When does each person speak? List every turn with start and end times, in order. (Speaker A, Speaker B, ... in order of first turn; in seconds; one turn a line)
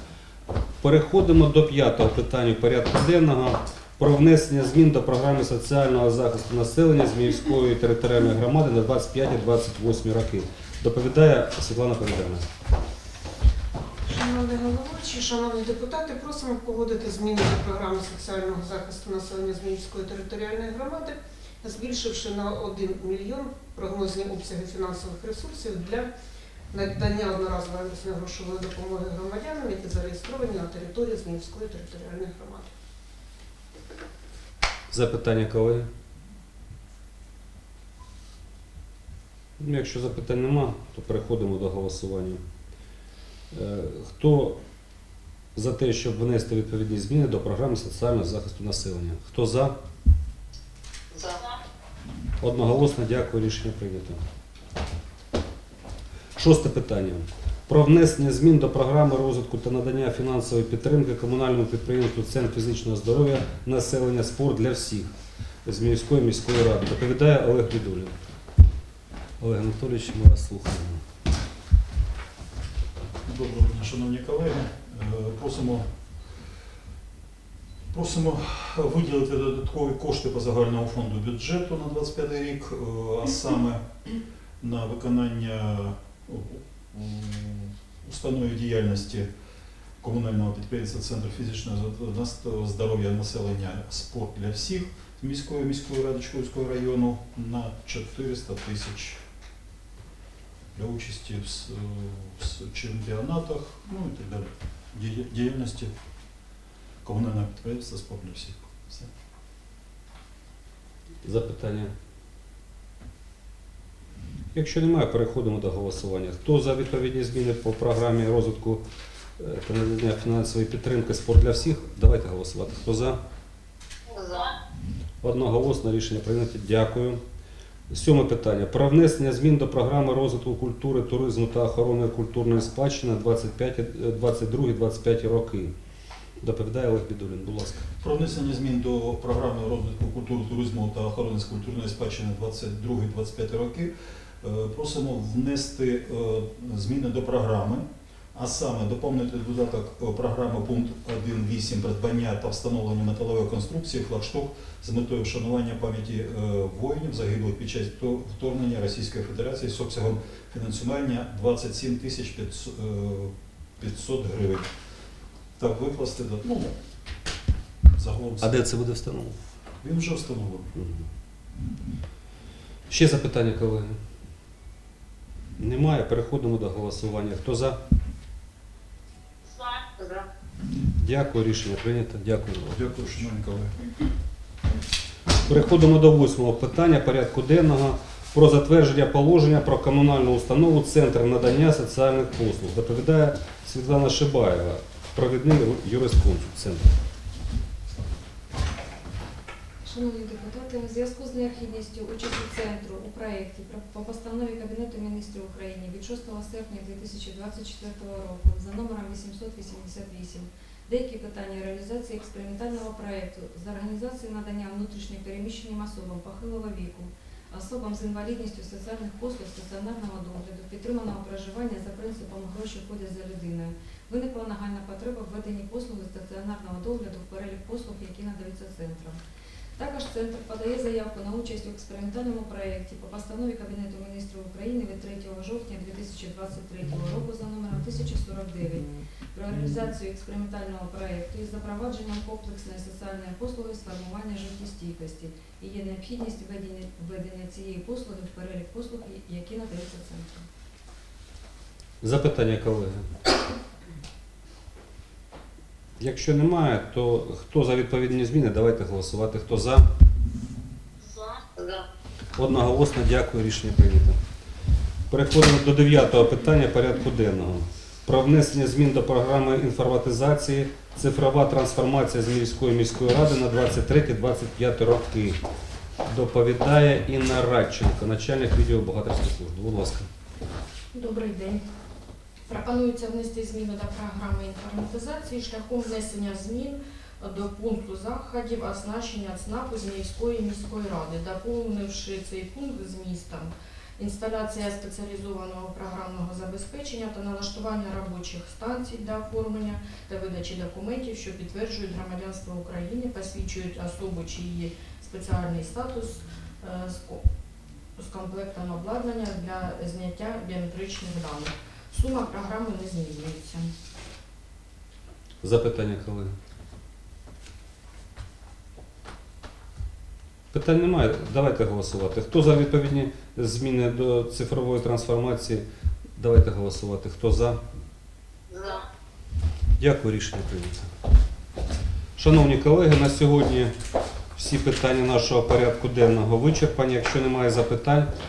Speaker A: 0.8-12.4
Speaker B: 14.1-26.1
Speaker B: 26.7-32.7
Speaker A: 34.9-35.9
Speaker A: 39.6-42.4
Speaker A: 43.5-44.6
Speaker A: 45.5-49.7
Speaker C: 51.1-51.5
Speaker A: 52.4-54.2
Speaker A: 56.4-65.1
Speaker A: 65.6-68.1
Speaker A: 69.4-71.0
Speaker D: 73.3-75.8
Speaker D: 77.9-83.8
Speaker D: 84.6-89.3
Speaker D: 90.0-99.2
Speaker D: 100.8-105.9
Speaker D: 107.0-109.1
Speaker A: 111.2-111.9
Speaker A: 114.5-118.8
Speaker A: 119.4-123.2
Speaker C: 124.1-124.5
Speaker A: 125.2-127.2
Speaker A: 127.9-135.7
Speaker A: 136.4-137.9
Speaker D: 138.0-143.9
Speaker D: 144.4-164.7
Speaker D: 165.6-166.7
Speaker D: 167.9-168.7
Speaker A: 168.4-169.4
Speaker D: 169.8-170.7
Speaker A: 170.8-171.0
Speaker A: 172.9-174.0
Speaker A: 175.6-177.8
Speaker C: 179.6-180.2
Speaker A: 181.0-182.8
Speaker D: 182.7-183.7
Speaker A: 185.4-196.9
Speaker E: 199.8-229.2
Speaker E: 229.8-250.4
Speaker A: 252.0-253.0
Speaker A: 256.0-259.8
Speaker C: 261.2-261.8
Speaker A: 262.4-264.1
Speaker A: 265.1-275.4
Speaker A: 276.1-280.1
Speaker F: 280.9-281.6
Speaker F: 282.5-307.2
Speaker F: 308.0-313.7
Speaker A: 315.4-316.3
Speaker A: 320.5-325.6
Speaker A: 326.2-327.6
Speaker C: 328.5-328.8
Speaker A: 329.8-330.9
Speaker A: 332.2-333.7
Speaker A: 334.4-338.1